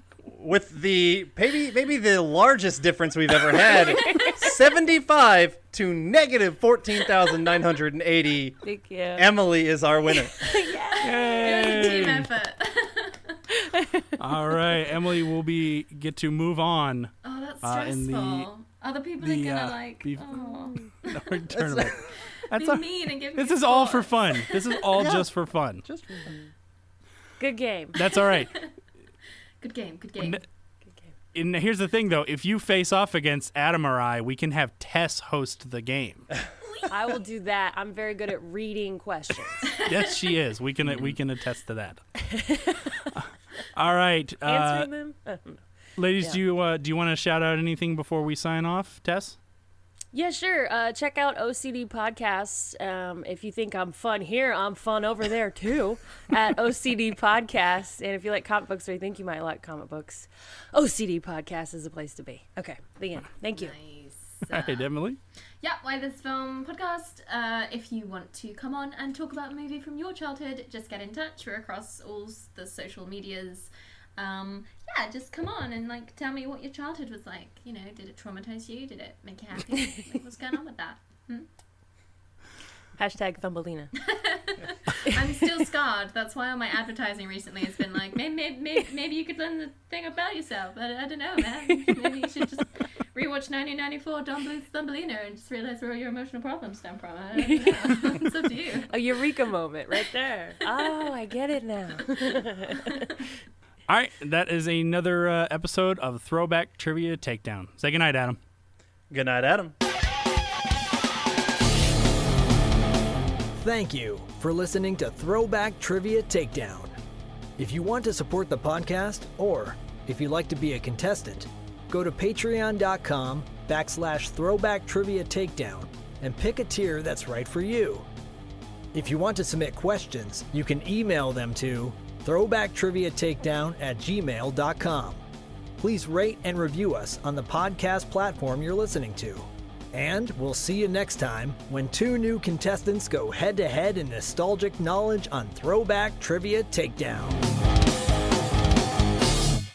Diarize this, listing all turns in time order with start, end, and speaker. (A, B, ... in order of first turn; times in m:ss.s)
0:00.2-0:08.6 A
0:08.6-0:09.3 B
0:09.2-0:10.6 A
0:10.1-0:11.8 B
0:11.0-0:13.4 C
0:11.0-0:12.3 D
0:13.5-0:14.2 B
0:14.2-0:18.5 D
0:17.2-0:21.3 C
0:19.2-0:25.8 D
0:20.3-0:20.9 B
0:21.5-0:22.0 A
0:22.3-0:24.8 C
0:24.9-0:25.3 A
0:25.8-0:26.5 A
0:27.4-0:28.0 B
0:27.9-0:28.6 D
0:28.1-0:28.7 C
0:29.6-0:30.4 C
0:30.2-0:30.4 D
0:31.3-0:36.3 D
0:36.9-0:39.7 B
0:39.7-0:40.1 C
0:39.8-0:42.2 D
0:40.8-0:41.2 A
0:42.3-0:43.0 B
0:43.1-0:44.9 D
0:44.4-0:45.6 B
0:46.0-0:49.4 D
0:50.1-1:03.7 B
1:03.5-1:04.8 C
1:04.5-1:05.2 D
1:05.6-1:21.5 C
1:23.0-1:23.9 B
1:24.0-1:38.9 C
1:25.0-1:25.6 B
1:37.4-1:38.2 B
1:38.9-1:43.1 B
1:42.7-1:43.1 C
1:43.9-1:48.4 D
1:49.1-1:49.7 A
1:53.5-1:56.9 E
1:57.6-2:08.1 E
2:08.9-2:15.2 E
2:15.8-2:27.4 E